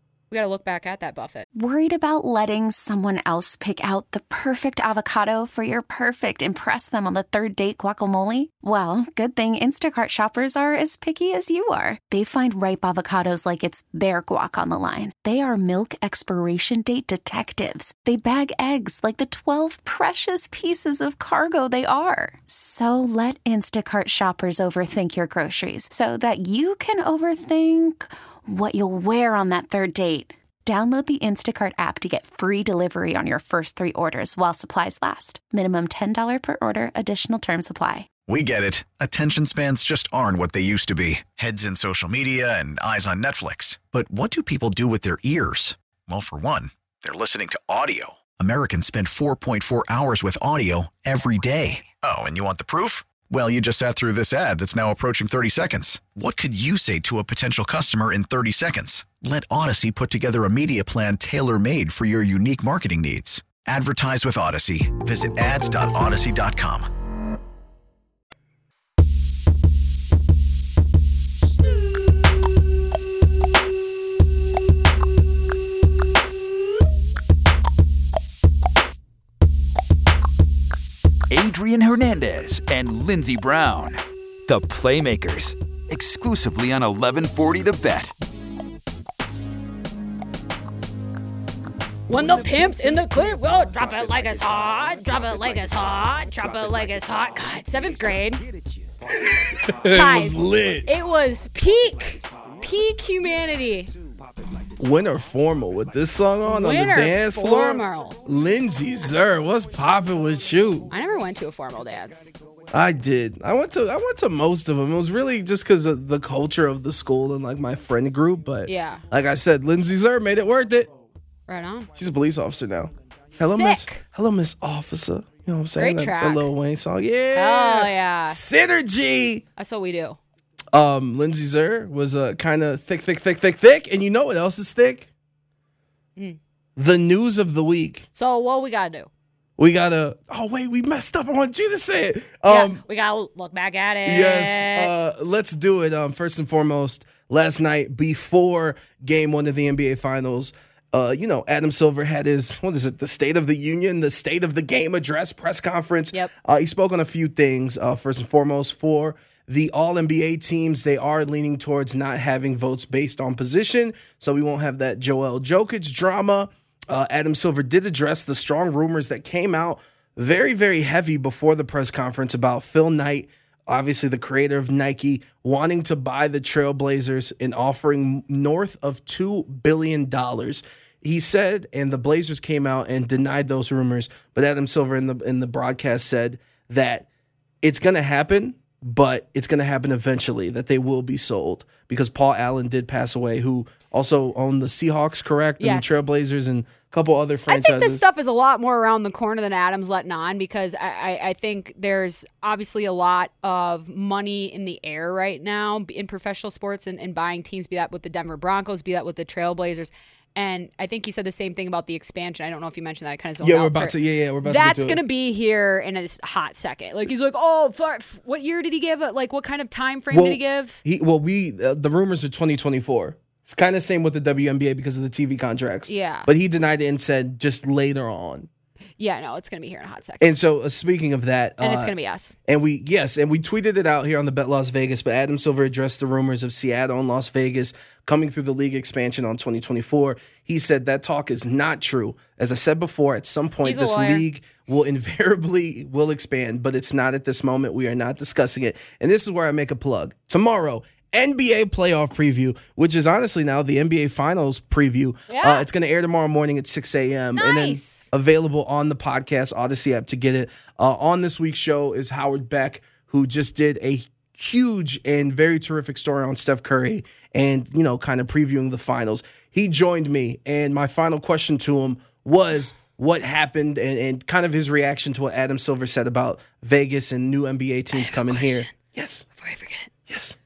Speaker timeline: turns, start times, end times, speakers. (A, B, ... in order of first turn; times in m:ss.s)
0:00.3-0:01.4 A
0:01.5-0:38.1 B
0:38.2-1:06.9 C
1:21.3-1:28.1 D
1:32.1-1:38.4 A
1:39.2-1:40.9 E
1:39.8-1:43.9 A
1:44.8-1:50.9 E
1:46.4-1:48.2 A
1:50.9-1:52.3 A
1:52.7-2:00.9 E
1:58.6-1:59.0 A
2:01.5-2:01.9 A
2:01.9-2:09.4 E
2:03.3-2:04.0 A
2:05.8-2:06.5 A
2:07.3-2:08.4 A
2:09.6-2:10.2 A
2:10.7-2:15.1 E
2:16.8-2:18.0 E
2:18.1-2:19.1 A
2:19.6-2:22.8 E
2:22.4-2:24.9 A
2:24.0-3:07.1 E
3:07.6-3:18.0 E
3:15.6-3:16.0 A
3:17.5-3:40.8 A
3:33.4-3:35.0 E
3:40.1-3:48.5 E
3:45.9-3:46.3 A
3:49.0-3:50.4 A
3:50.2-3:51.9 E
3:51.6-3:52.4 A
3:52.5-4:39.2 E
4:03.6-4:04.2 A
4:15.3-4:15.6 A
4:17.3-4:18.1 A
4:37.9-4:38.7 A
4:39.3-4:39.9 A
4:40.1-4:40.4 E